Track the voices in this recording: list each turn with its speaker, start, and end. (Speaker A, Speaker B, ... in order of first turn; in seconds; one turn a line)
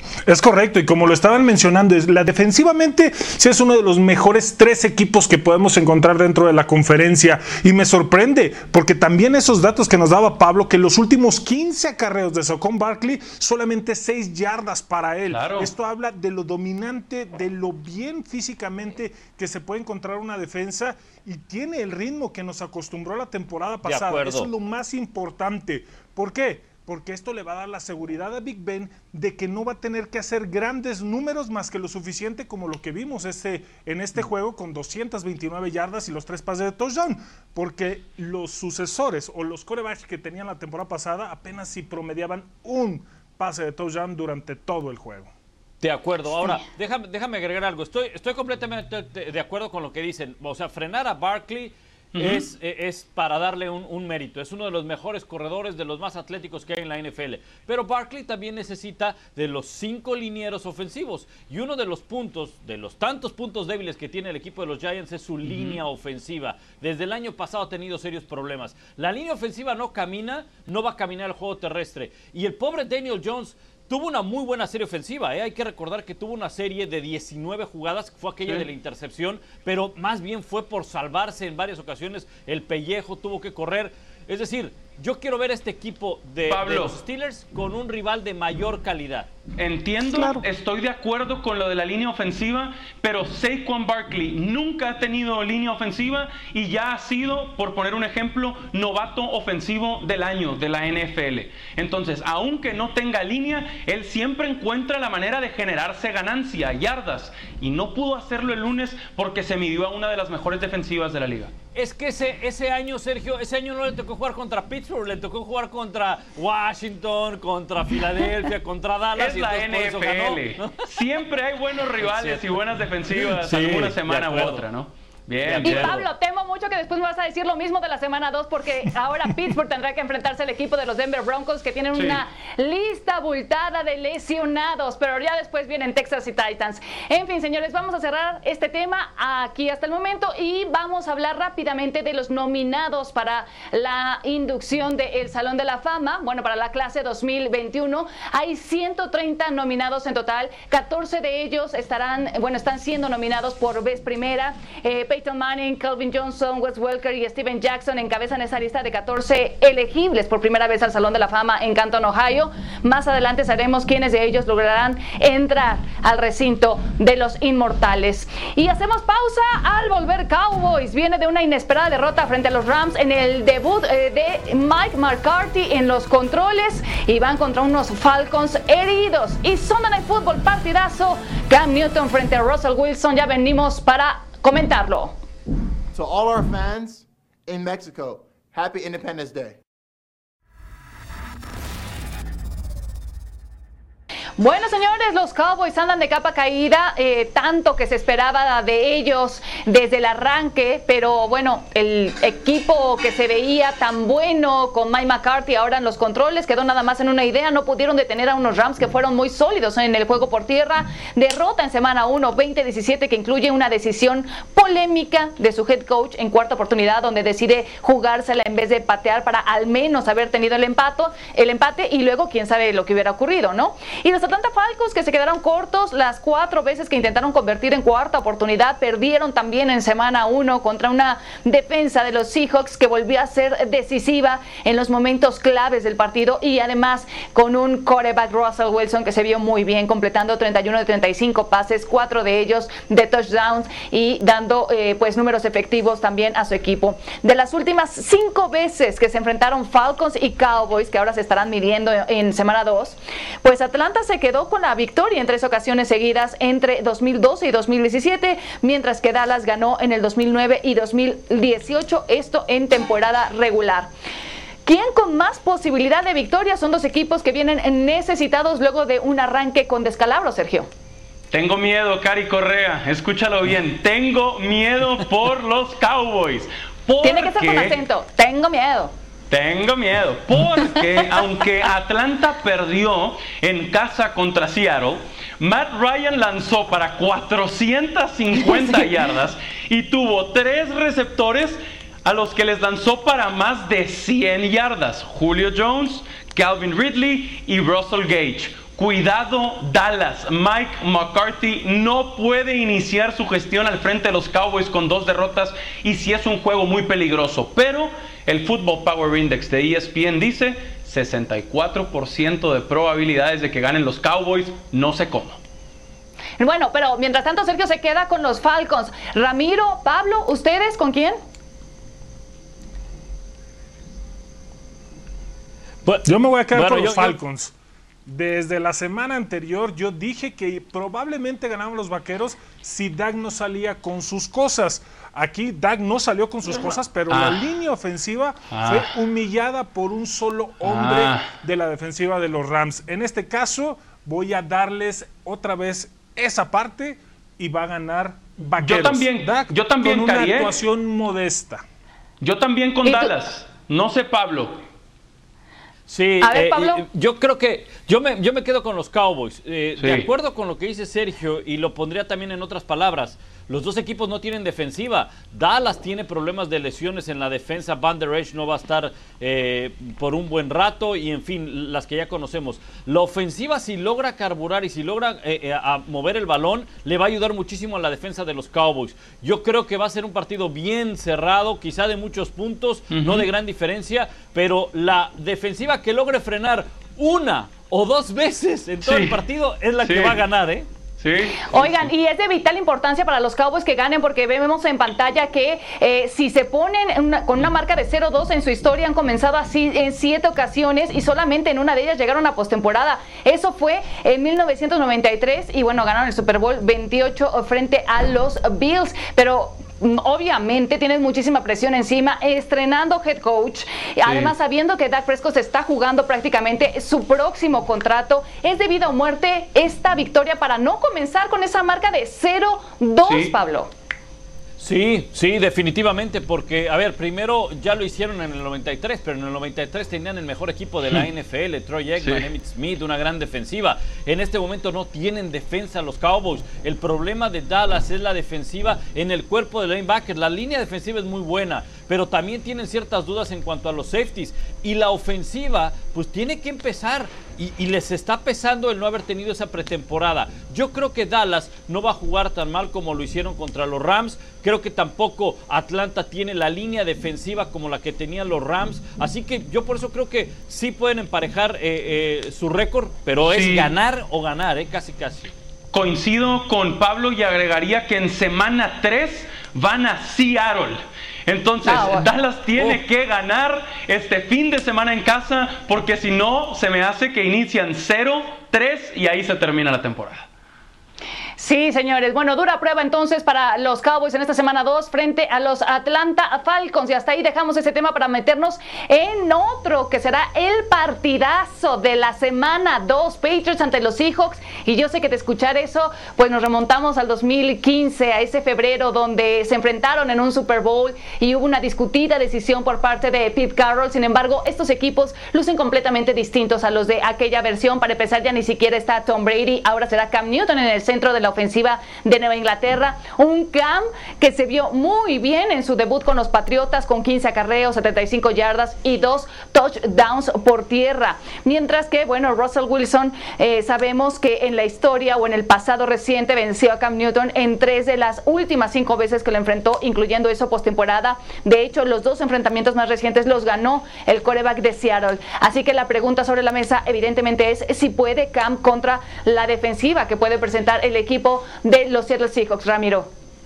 Speaker A: 0.2-45.3
Speaker B: 15.3-15.7
Speaker C: 23.8-24.5
Speaker C: 45.8-89.3
Speaker B: 52.1-52.4
Speaker B: 65.4-65.8
Speaker B: 86.5-87.0
Speaker B: 89.6-111.5
Speaker A: 90.1-90.4
Speaker C: 111.7-120.8
Speaker B: 119.2-125.9
Speaker C: 122.0-124.6
Speaker C: 125.4-126.1
Speaker D: 125.6-185.2
Speaker B: 131.9-132.2
Speaker E: 185.9-189.6
Speaker D: 194.4-263.9
Speaker D: 264.6-270.7
Speaker B: 271.3-277.8
Speaker D: 277.0-278.9
Speaker B: 279.3-315.4
Speaker D: 288.3-288.9
Speaker D: 316.4-321.2
Speaker C: 325.8-327.2
Speaker A: 326.0-327.5
Speaker A: 328.1-351.6
Speaker B: 337.1-337.4
Speaker B: 338.5-338.9
Speaker B: 340.6-341.3
Speaker B: 348.6-350.5
Speaker B: 352.2-354.6
Speaker D: 352.8-353.1
Speaker C: 355.9-390.7
Speaker D: 356.2-356.8
Speaker B: 359.8-360.1
Speaker B: 382.9-383.3
Speaker B: 388.8-389.2
Speaker B: 389.8-390.2
Speaker B: 391.0-391.8
Speaker D: 391.5-423.7
Speaker B: 414.0-414.3
Speaker B: 423.0-423.3
Speaker C: 424.6-465.3
Speaker B: 432.0-432.2
Speaker B: 463.2-463.7
Speaker B: 465.7-480.3
Speaker D: 471.6-472.1
Speaker D: 481.4-543.1